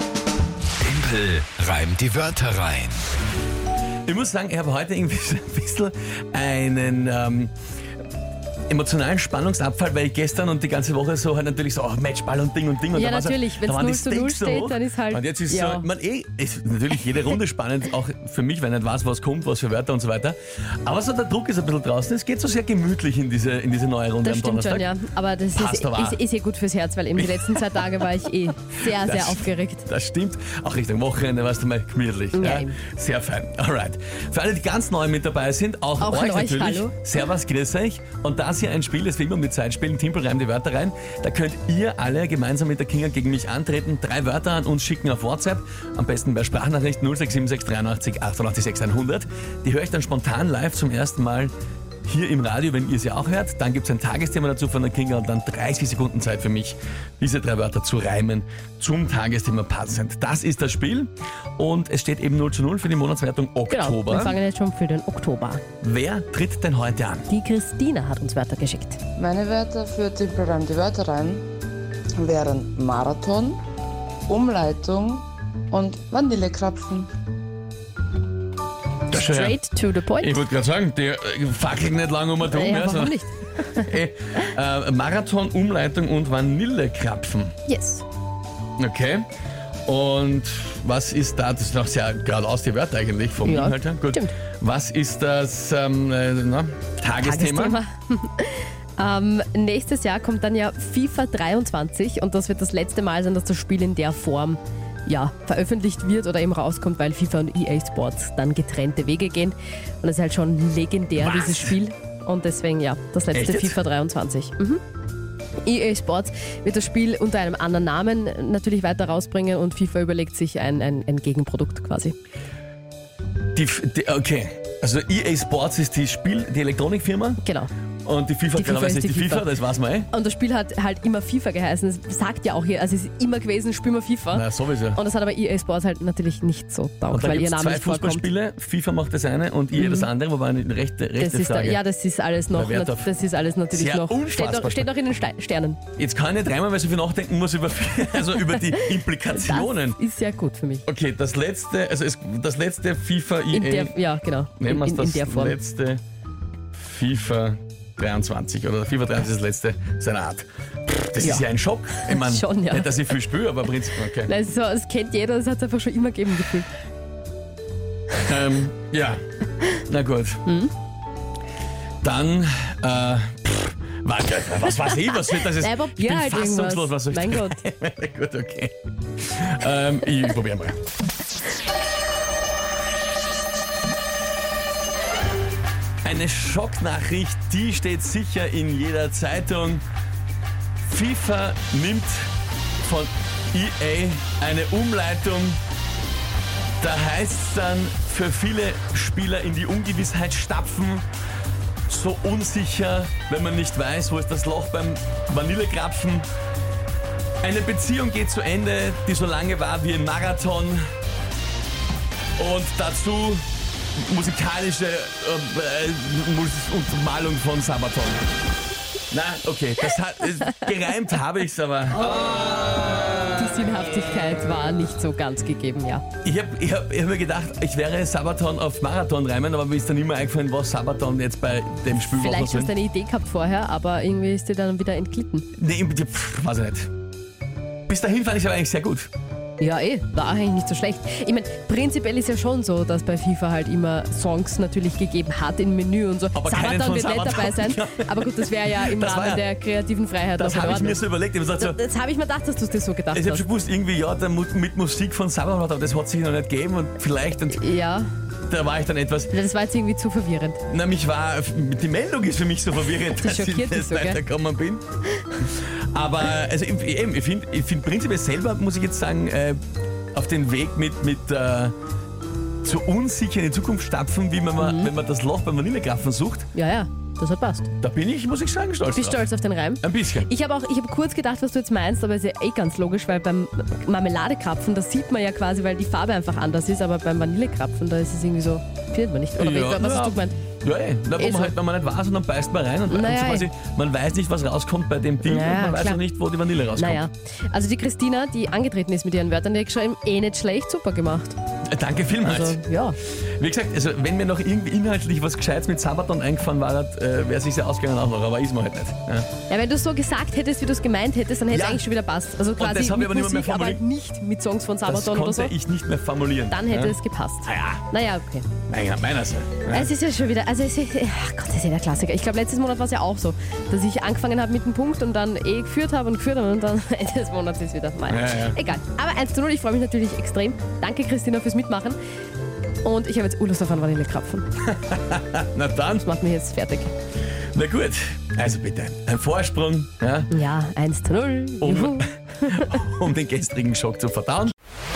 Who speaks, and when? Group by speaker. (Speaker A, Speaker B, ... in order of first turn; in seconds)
Speaker A: 0.8-3.0
Speaker B: 4.0-7.5, 8.7-24.9, 25.5-26.2, 27.1-27.7, 28.8-51.5, 52.0-64.4, 65.8-67.3, 79.1-79.6, 80.2-83.2, 83.8-87.5, 88.8-89.2, 89.8-97.8, 111.2-111.7, 113.3-113.8, 123.5-127.4, 128.0-130.1, 134.3-135.0, 137.1-141.8, 142.5-143.1, 143.7-144.9, 145.9-150.0, 150.8-154.0, 154.6-156.0, 156.7-164.3, 168.2-169.2, 169.7-170.4, 172.0-180.8, 186.0-189.8, 190.8-192.3, 192.8-195.6, 196.8-201.1, 201.9-206.3, 207.4-210.8, 212.4-213.4, 214.0-218.2, 219.1-222.2, 226.2-232.7, 235.5-236.9, 237.9-239.1, 246.3-249.4, 250.4-251.8, 253.1-257.7, 258.4-259.3, 260.7-264.8, 265.4-269.6, 270.1-271.7, 272.6-276.5, 277.8-279.3, 279.8-280.3, 289.4-297.0, 301.7-302.6, 303.4-309.3, 311.5-311.9, 312.6-313.8, 314.8-317.8, 318.7-319.9, 328.1-328.6, 334.6-336.0, 337.5-340.3, 341.6-344.5
Speaker C: 12.9-15.9, 24.2-29.9, 32.3-32.8, 36.0-36.9, 63.7-65.6, 67.3-69.0, 79.1-80.4, 82.4-83.9, 87.7-88.0, 93.4-94.3, 97.2-114.8, 115.6-122.1, 127.4-127.7, 128.5-129.5, 130.1-138.3, 139.7-140.1, 141.2-145.8, 148.2-150.8, 153.5-155.6, 161.2-163.0, 164.2-166.7, 170.4-170.7, 174.8-177.6, 223.3-226.0, 231.9-235.5, 239.6-251.0, 251.6-253.4, 257.5-258.1, 259.3-260.6, 262.9-264.2, 274.6-274.9, 276.5-277.7, 278.9-290.4, 291.1-291.5, 292.9-293.5, 295.2-296.0, 296.7-301.4, 302.2-302.9, 309.5-315.5, 316.5-318.5, 319.7-332.0, 332.8-334.5, 335.9-336.9, 340.3-342.7
Speaker D: 69.2-71.4, 72.2-73.6, 74.3-77.1